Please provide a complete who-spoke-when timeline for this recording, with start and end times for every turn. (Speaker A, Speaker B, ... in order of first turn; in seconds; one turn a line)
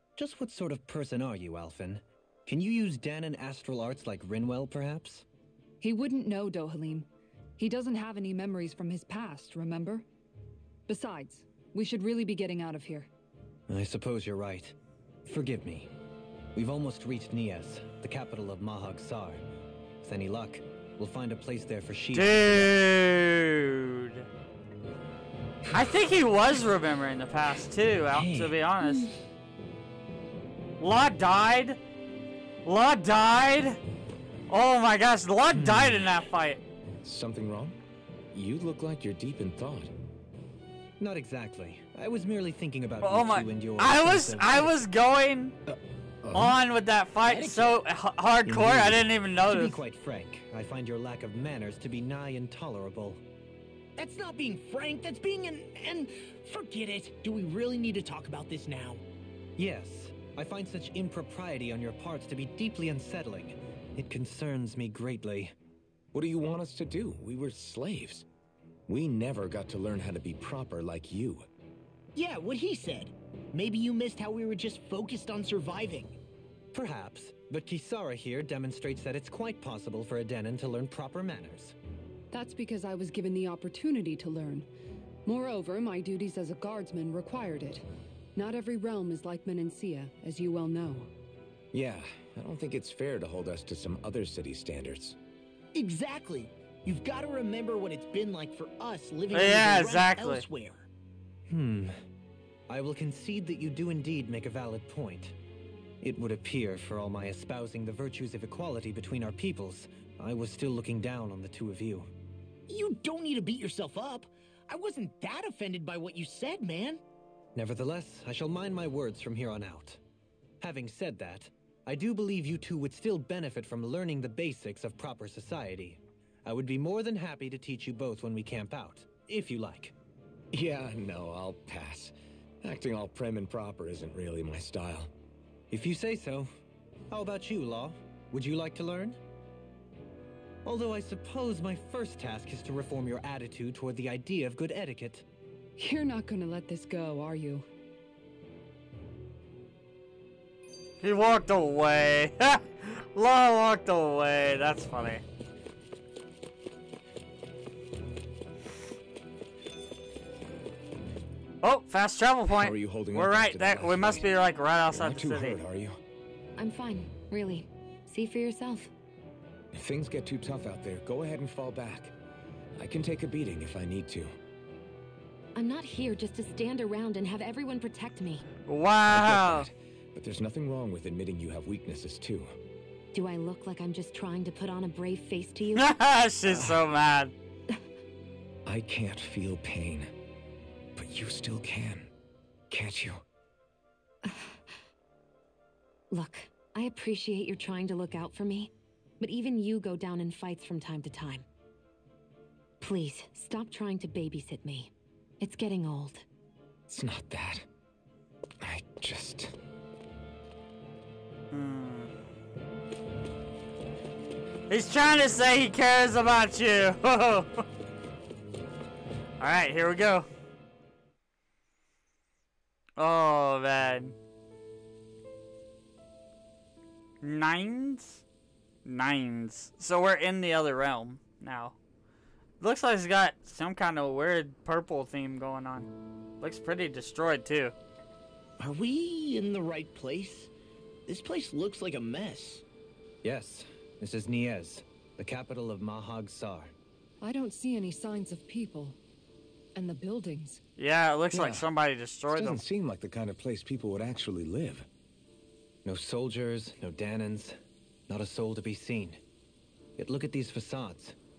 Speaker A: 0.2-5.2
Speaker B: 5.8-7.1
Speaker B: 7.6-10.1
Speaker B: 10.9-13.1
Speaker A: 13.7-14.8
Speaker A: 15.3-15.9
Speaker A: 16.6-19.4
Speaker A: 20.0-22.8
Speaker C: 22.1-24.3
Speaker C: 25.7-29.1
Speaker C: 30.8-31.8
Speaker C: 32.7-33.8
Speaker C: 34.5-36.6
Speaker A: 35.5-36.1
Speaker D: 37.0-37.8
Speaker D: 38.3-39.9
Speaker A: 41.0-44.8
Speaker C: 43.0-45.6
Speaker D: 45.7-46.6
Speaker C: 46.3-49.8
Speaker E: 47.2-47.8
Speaker A: 48.5-53.2
Speaker E: 54.0-59.0
Speaker A: 59.6-65.5
Speaker D: 66.1-68.3
Speaker D: 68.9-71.5
Speaker E: 72.2-76.2
Speaker A: 76.7-81.7
Speaker B: 82.3-84.7
Speaker B: 85.3-91.1
Speaker D: 91.7-95.2
Speaker E: 95.8-100.9
Speaker C: 99.3-100.4
Speaker A: 101.5-102.0
Speaker A: 102.7-105.3
Speaker A: 106.0-112.1
Speaker E: 112.7-117.0
Speaker A: 117.5-120.0
Speaker A: 120.6-129.9
Speaker D: 130.5-135.1
Speaker A: 135.7-136.5
Speaker A: 137.1-139.2
Speaker A: 140.7-145.2
Speaker B: 145.8-147.7
Speaker C: 151.0-155.2
Speaker C: 161.6-165.6
Speaker D: 162.5-164.3
Speaker D: 164.9-166.0
Speaker F: 166.6-168.9
Speaker D: 169.7-172.2
Speaker D: 172.8-174.3
Speaker F: 175.6-178.5
Speaker C: 178.7-179.7
Speaker D: 179.1-182.6
Speaker F: 183.1-186.0
Speaker C: 185.8-187.3
Speaker D: 186.5-186.8
Speaker D: 188.7-190.1
Speaker D: 191.0-192.1
Speaker D: 192.7-193.2
Speaker F: 194.2-194.6
Speaker F: 196.1-201.5
Speaker F: 202.8-206.2
Speaker D: 206.9-207.7
Speaker D: 208.6-209.6
Speaker C: 211.5-212.1
Speaker C: 214.7-217.7
Speaker C: 219.4-220.3
Speaker C: 223.0-224.2
Speaker C: 227.2-228.2
Speaker C: 228.8-231.8
Speaker C: 232.6-235.9
Speaker C: 236.4-237.8
Speaker E: 238.6-240.5
Speaker E: 241.1-242.6
Speaker A: 243.2-246.7
Speaker B: 247.2-249.0
Speaker B: 249.8-250.6
Speaker C: 250.8-252.6
Speaker D: 251.3-251.7
Speaker D: 252.3-254.9
Speaker A: 255.8-259.2
Speaker A: 260.0-261.2